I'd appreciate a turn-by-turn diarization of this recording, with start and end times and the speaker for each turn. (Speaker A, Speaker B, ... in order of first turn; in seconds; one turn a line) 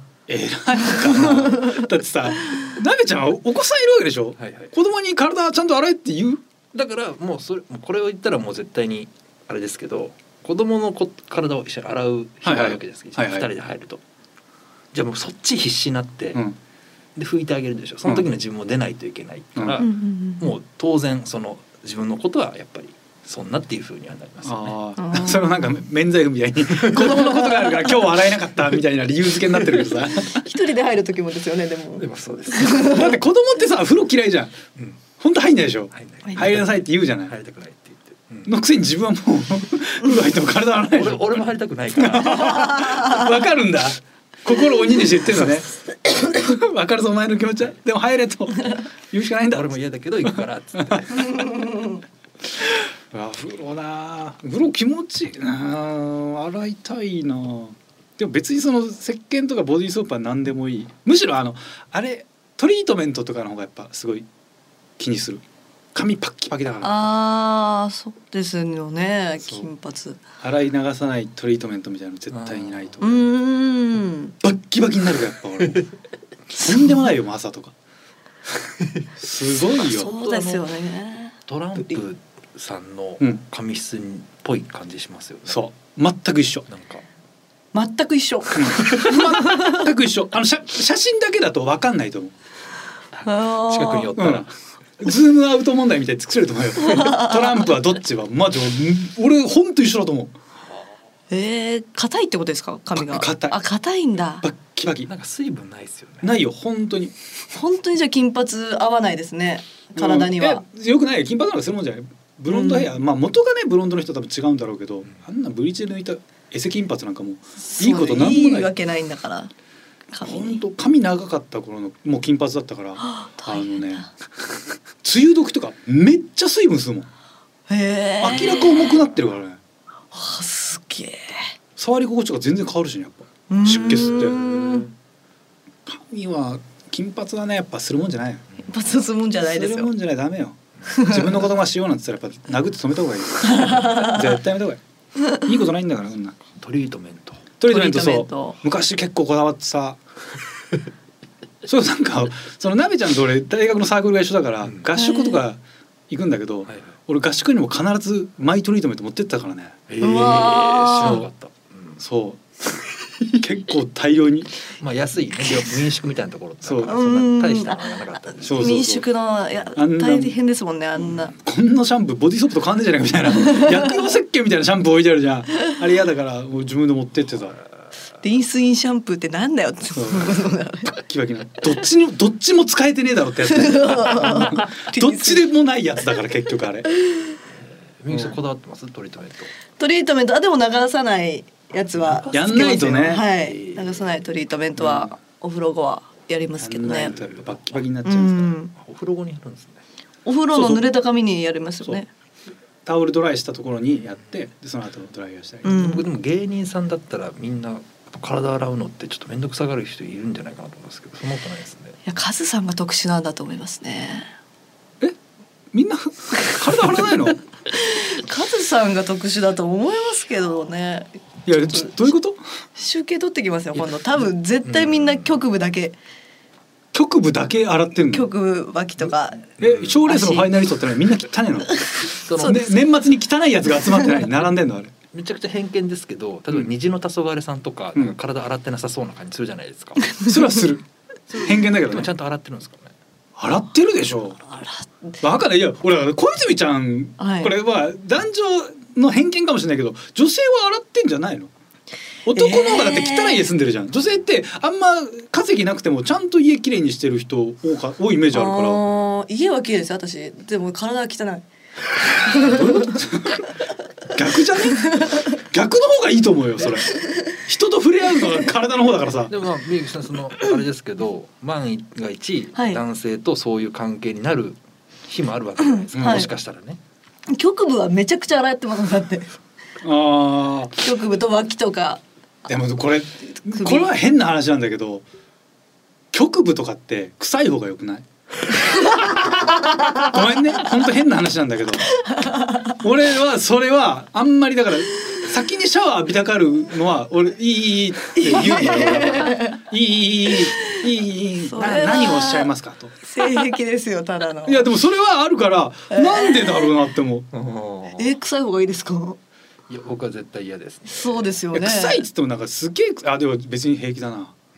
Speaker A: 0.3-6.4
Speaker B: 1.1-1.9
Speaker C: 4.4-4.7
Speaker C: 6.7-14.0
Speaker A: 12.4-13.5
Speaker C: 14.9-16.4
Speaker C: 17.1-24.7
Speaker A: 19.6-19.9
Speaker B: 19.8-20.5
Speaker A: 24.4-30.4
Speaker B: 25.0-25.8
Speaker B: 30.3-33.2
Speaker C: 32.0-33.0
Speaker A: 32.7-34.6
Speaker A: 35.2-37.3
Speaker C: 35.9-38.5
Speaker A: 38.5-41.3
Speaker C: 40.9-42.7
Speaker A: 42.0-51.0
Speaker B: 42.4-43.2
Speaker C: 49.5-51.5
Speaker B: 51.1-52.0
Speaker A: 53.1-64.3
Speaker A: 65.0-65.4
Speaker A: 65.9-67.0
Speaker B: 66.8-70.2
Speaker A: 69.4-69.7
Speaker A: 70.4-73.3
Speaker C: 72.3-73.0
Speaker B: 73.0-74.3
Speaker A: 74.4-75.9
Speaker A: 76.5-77.7
Speaker B: 76.6-77.1
Speaker C: 78.8-79.1
Speaker A: 79.2-80.1
Speaker B: 79.6-82.0
Speaker C: 80.0-80.7
Speaker C: 81.5-85.6
Speaker A: 85.5-86.7
Speaker C: 86.7-87.1
Speaker B: 87.7-89.9
Speaker A: 88.5-92.3
Speaker C: 88.8-89.1
Speaker B: 93.2-94.1
Speaker C: 93.6-94.5
Speaker A: 94.2-100.3
Speaker B: 96.8-97.6
Speaker B: 101.3-104.5
Speaker A: 103.0-103.6
Speaker A: 104.4-105.1
Speaker C: 105.1-106.3
Speaker A: 106.2-107.1
Speaker B: 107.5-110.6
Speaker A: 110.0-118.7
Speaker B: 112.5-112.9
Speaker B: 117.6-119.5
Speaker B: 120.1-120.6
Speaker A: 120.2-124.1
Speaker B: 123.0-124.1
Speaker A: 125.0-127.1
Speaker B: 127.7-129.0
Speaker A: 128.2-129.6
Speaker B: 130.1-131.5
Speaker A: 131.8-134.9
Speaker B: 133.5-134.8
Speaker C: 134.2-134.9
Speaker A: 135.9-138.5
Speaker B: 138.6-139.9
Speaker A: 139.4-144.8
Speaker B: 140.9-141.4
Speaker B: 143.4-144.2
Speaker A: 145.3-146.4
Speaker C: 146.6-147.4
Speaker A: 147.6-150.0
Speaker B: 147.7-148.6
Speaker A: 151.7-159.8
Speaker B: 155.0-155.4
Speaker C: 159.9-162.0
Speaker B: 160.0-161.2
Speaker A: 161.0-161.3
Speaker A: 162.0-162.4
Speaker A: 163.2-164.6
Speaker C: 164.7-168.8
Speaker A: 166.6-166.9
Speaker B: 166.8-171.3
Speaker A: 168.4-169.1
Speaker A: 169.8-170.3
Speaker A: 171.3-177.6
Speaker B: 173.4-173.9
Speaker B: 178.2-180.9
Speaker A: 179.9-186.9
Speaker B: 183.4-185.5
Speaker C: 187.6-189.5
Speaker A: 188.1-188.4
Speaker B: 189.8-197.2
Speaker C: 191.9-194.2
Speaker A: 192.3-193.3
Speaker A: 196.6-198.6
Speaker C: 197.1-197.8
Speaker B: 198.0-198.7
Speaker C: 198.8-199.8
Speaker B: 200.3-202.1
Speaker A: 200.5-200.8
Speaker A: 202.8-205.8
Speaker B: 205.6-206.1
Speaker C: 205.7-212.0
Speaker B: 212.1-214.3
Speaker A: 215.7-217.4
Speaker B: 217.7-222.1
Speaker A: 221.5-222.4
Speaker B: 222.8-226.0
Speaker C: 224.7-225.3
Speaker A: 226.9-228.3
Speaker B: 228.1-229.5
Speaker A: 229.6-234.9
Speaker C: 229.6-230.0
Speaker B: 230.1-230.5
Speaker B: 231.7-232.8
Speaker C: 232.3-232.6
Speaker C: 235.1-240.0
Speaker B: 240.1-240.3
Speaker A: 240.2-242.1
Speaker C: 241.3-242.9
Speaker A: 243.4-244.4
Speaker B: 244.5-245.2
Speaker A: 245.2-251.5
Speaker B: 247.2-247.5
Speaker A: 252.3-258.8
Speaker B: 252.3-253.5
Speaker B: 258.3-261.5
Speaker B: 262.2-262.9
Speaker A: 262.3-263.5
Speaker A: 264.1-269.3
Speaker B: 264.8-265.2
Speaker C: 266.6-266.9
Speaker B: 266.9-267.4
Speaker B: 268.1-268.5
Speaker C: 269.3-276.8
Speaker B: 272.6-272.8
Speaker B: 275.7-276.3
Speaker A: 276.0-276.3
Speaker B: 277.3-279.3
Speaker A: 279.8-280.8
Speaker B: 280.8-282.0
Speaker A: 282.5-285.1
Speaker B: 283.5-283.9
Speaker A: 286.1-288.1
Speaker B: 288.8-289.1
Speaker A: 289.0-291.9
Speaker B: 291.9-292.7
Speaker A: 292.8-303.5
Speaker B: 298.1-299.6
Speaker B: 300.5-300.8
Speaker B: 301.4-302.5
Speaker B: 303.0-304.7
Speaker A: 304.5-307.3
Speaker B: 305.9-306.7
Speaker C: 307.3-308.2
Speaker B: 308.0-309.2
Speaker C: 309.7-311.2
Speaker B: 310.9-312.0
Speaker A: 311.5-314.3